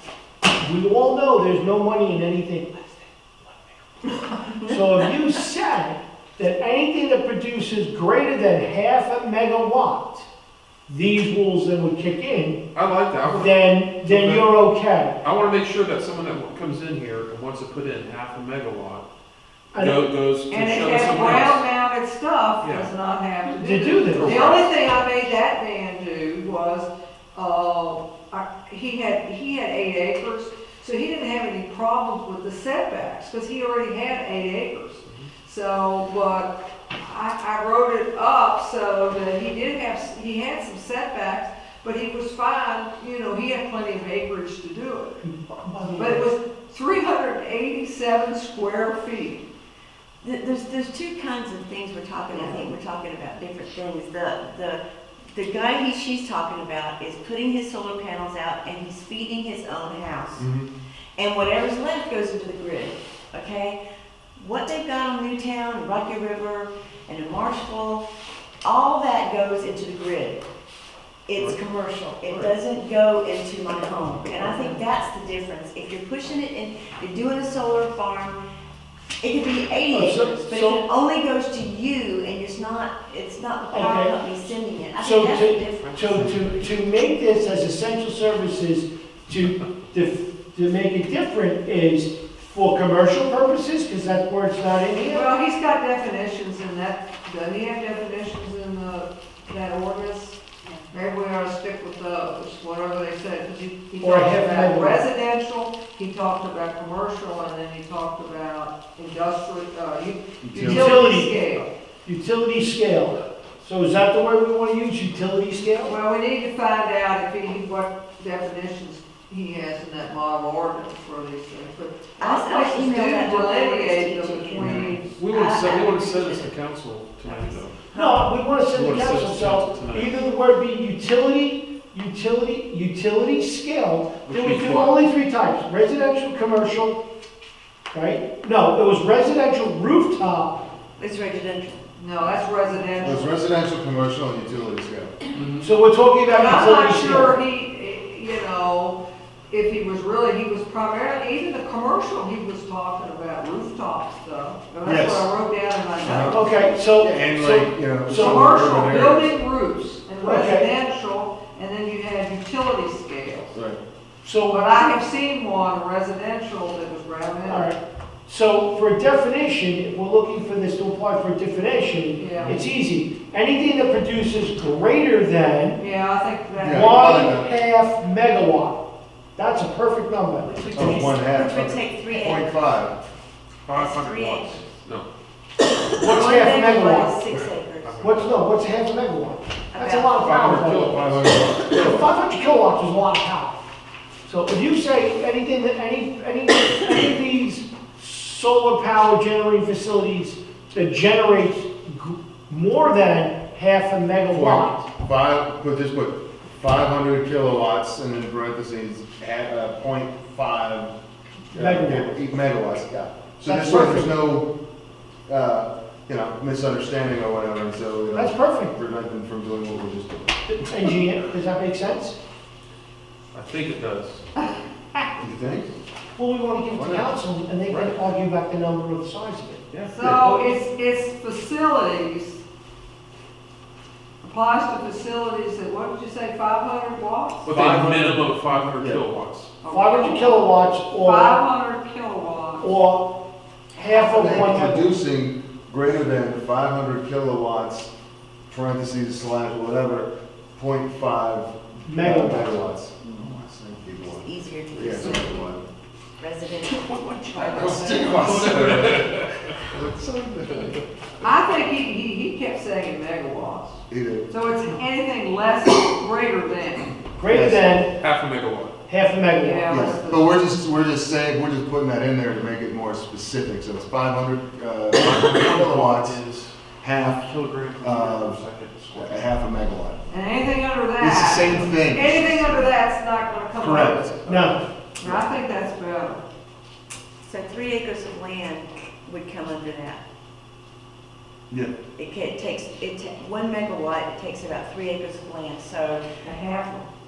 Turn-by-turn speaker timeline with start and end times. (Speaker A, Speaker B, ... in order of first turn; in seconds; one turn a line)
Speaker A: 0.6-3.1
Speaker B: 4.4-4.8
Speaker A: 4.7-10.3
Speaker A: 10.9-12.6
Speaker C: 12.7-14.5
Speaker A: 13.3-15.2
Speaker C: 15.2-19.1
Speaker A: 19.7-20.0
Speaker C: 19.8-21.6
Speaker D: 20.5-45.2
Speaker C: 22.6-22.9
Speaker A: 23.5-24.4
Speaker C: 24.1-25.0
Speaker A: 45.3-46.2
Speaker D: 46.0-49.5
Speaker B: 50.2-54.8
Speaker D: 52.3-52.7
Speaker B: 55.3-60.5
Speaker E: 60.4-60.7
Speaker B: 61.2-63.8
Speaker B: 64.4-68.1
Speaker B: 68.6-70.4
Speaker B: 71.3-78.4
Speaker B: 79.2-86.0
Speaker A: 79.9-80.8
Speaker A: 83.7-84.1
Speaker A: 85.0-95.3
Speaker C: 85.8-86.9
Speaker D: 95.1-111.7
Speaker A: 104.0-105.0
Speaker E: 110.4-111.1
Speaker A: 110.6-111.4
Speaker A: 112.0-116.0
Speaker D: 115.8-125.2
Speaker B: 122.2-126.6
Speaker E: 124.6-124.9
Speaker C: 125.2-127.9
Speaker B: 127.2-128.3
Speaker A: 127.9-137.0
Speaker C: 128.7-130.3
Speaker C: 134.3-135.0
Speaker A: 137.9-140.6
Speaker B: 141.0-141.8
Speaker D: 142.0-143.4
Speaker E: 143.0-145.1
Speaker C: 145.3-145.7
Speaker A: 145.6-147.4
Speaker D: 146.3-156.5
Speaker E: 154.8-155.3
Speaker E: 156.0-159.3
Speaker A: 156.3-158.4
Speaker D: 158.1-163.6
Speaker A: 160.2-160.7
Speaker E: 163.5-163.8
Speaker A: 164.2-165.0
Speaker D: 164.5-167.7
Speaker A: 167.5-175.8
Speaker D: 172.2-172.6
Speaker D: 175.8-177.3
Speaker E: 176.6-177.5
Speaker A: 176.7-178.8
Speaker A: 179.4-180.9
Speaker B: 180.4-182.6
Speaker E: 180.7-182.9
Speaker C: 183.7-185.1
Speaker B: 183.7-184.7
Speaker B: 186.0-188.0
Speaker A: 186.0-187.1
Speaker C: 187.8-188.4
Speaker A: 188.0-193.6
Speaker B: 189.7-190.5
Speaker C: 190.2-191.9
Speaker A: 194.3-204.8
Speaker E: 204.3-210.9
Speaker E: 211.5-214.5
Speaker A: 211.5-212.2
Speaker A: 213.5-214.2
Speaker E: 215.3-220.9
Speaker A: 218.1-218.8
Speaker A: 220.5-222.2
Speaker C: 223.3-224.3
Speaker E: 225.2-225.7
Speaker A: 226.2-229.6
Speaker E: 226.7-227.1
Speaker C: 227.7-228.0
Speaker C: 229.7-230.6
Speaker D: 229.9-232.4
Speaker D: 234.2-237.4
Speaker C: 237.5-239.5
Speaker E: 237.5-238.3
Speaker E: 238.8-239.0
Speaker D: 239.6-242.8
Speaker A: 239.7-241.4
Speaker A: 242.6-243.1
Speaker A: 243.7-244.9
Speaker E: 244.1-247.9
Speaker E: 248.5-255.6
Speaker A: 251.9-252.6
Speaker B: 254.0-255.6
Speaker B: 256.2-258.6
Speaker E: 257.3-259.2
Speaker D: 257.7-258.2
Speaker C: 258.1-259.6
Speaker E: 259.7-260.8
Speaker D: 261.2-266.9
Speaker E: 263.9-264.3
Speaker A: 267.2-267.9
Speaker E: 267.3-267.8
Speaker C: 268.0-268.7
Speaker A: 268.9-269.7
Speaker D: 269.4-270.3
Speaker E: 269.7-276.2
Speaker C: 274.9-279.2
Speaker E: 276.8-278.4
Speaker E: 278.9-280.0
Speaker D: 280.1-284.2
Speaker E: 281.0-282.7
Speaker E: 283.6-284.4
Speaker A: 284.3-284.6
Speaker D: 285.0-286.2
Speaker B: 287.2-290.0
Speaker B: 292.0-296.0
Speaker D: 296.2-296.9